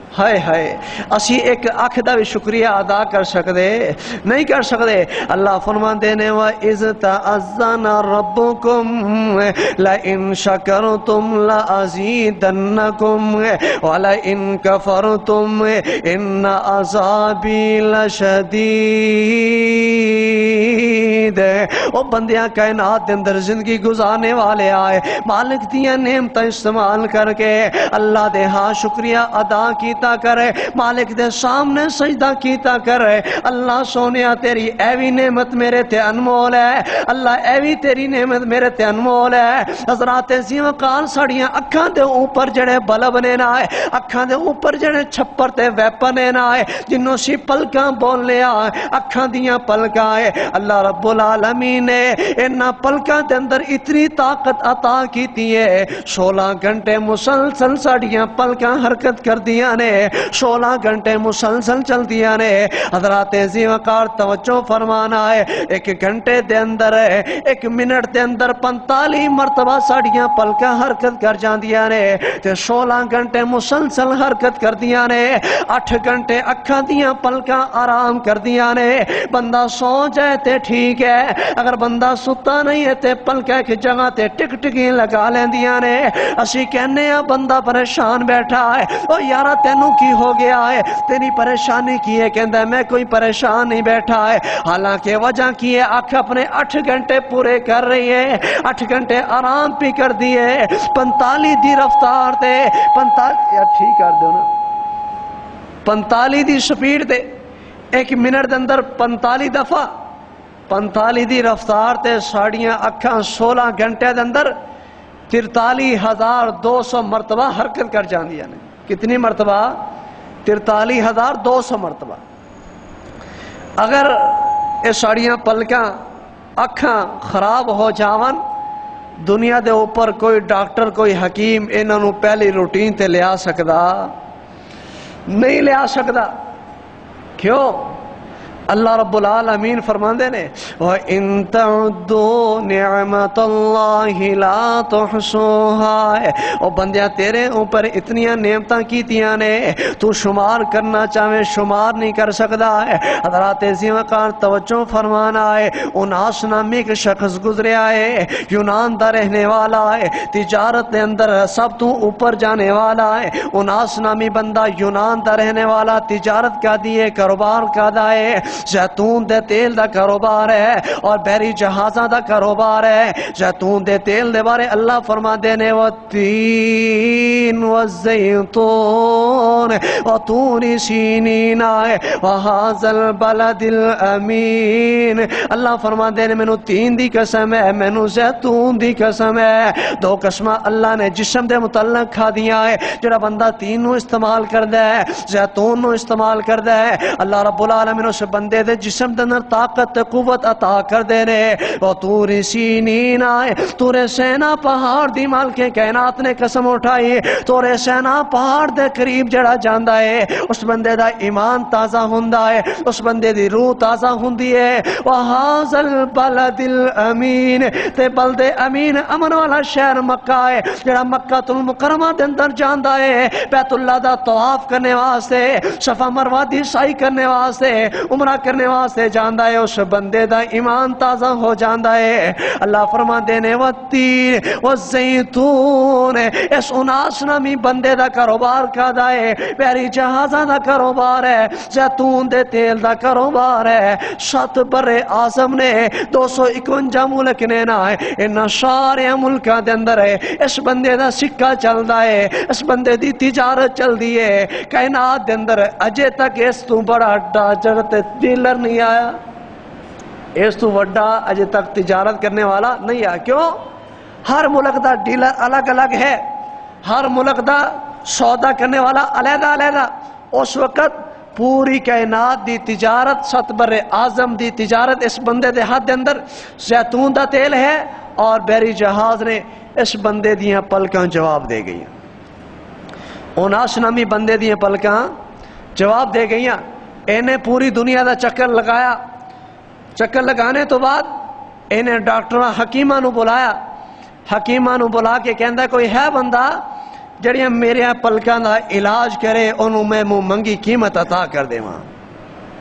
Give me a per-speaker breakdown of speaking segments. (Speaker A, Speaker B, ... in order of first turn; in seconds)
Speaker A: 0.1-104.5, 105.8-107.2, 107.9-109.9, 110.7-114.5, 115.3-119.8, 120.5-122.2, 123.8-125.9, 126.6-128.4, 129.2-134.1, 135.3-136.3, 137.4-138.0, 138.7-259.1, 260.4-263.6, 264.3-266.2, 266.8-281.9, 283.4-285.1, 285.8-289.0, 290.0-291.1, 291.7-293.6, 294.3-296.6, 297.2-301.9